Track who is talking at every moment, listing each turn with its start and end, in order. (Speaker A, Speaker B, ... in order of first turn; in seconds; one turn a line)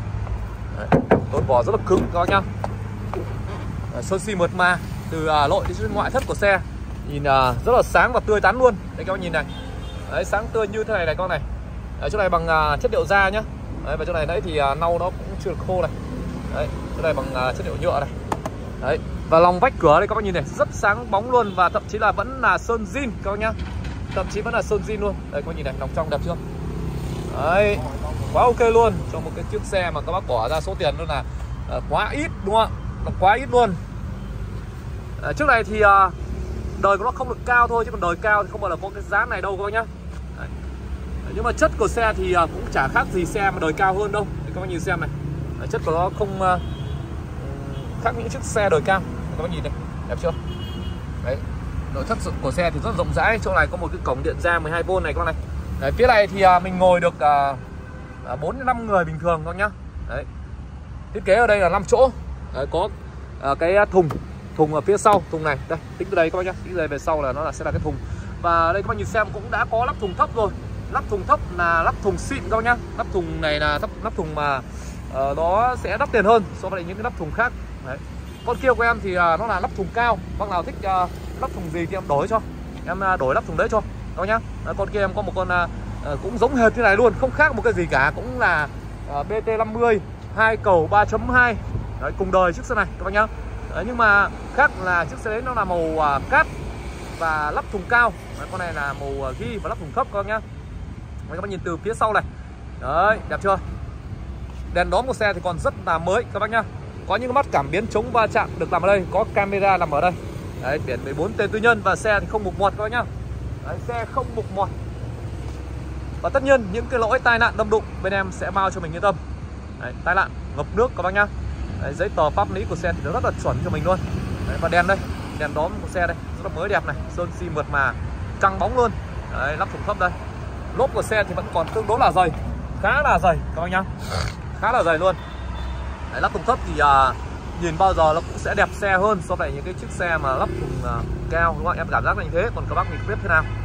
Speaker A: 0.7-2.5
Speaker A: 3.9-9.5
Speaker A: 10.1-11.4
Speaker A: 12.0-15.9
Speaker A: 16.5-18.1
Speaker A: 18.8-23.6
Speaker A: 24.1-26.4
Speaker A: 27.3-33.8
Speaker A: 35.2-36.1
Speaker A: 36.7-40.5
Speaker A: 41.2-46.6
Speaker A: 47.4-50.4
Speaker A: 51.2-57.6
Speaker A: 58.2-60.3
Speaker A: 61.1-96.5
Speaker A: 97.2-100.4
Speaker A: 101.3-102.2
Speaker A: 102.8-103.6
Speaker A: 104.7-113.1
Speaker A: 113.6-114.7
Speaker A: 116.2-119.2
Speaker A: 119.8-130.2
Speaker A: 130.7-133.9
Speaker A: 134.5-135.2
Speaker A: 136.1-143.5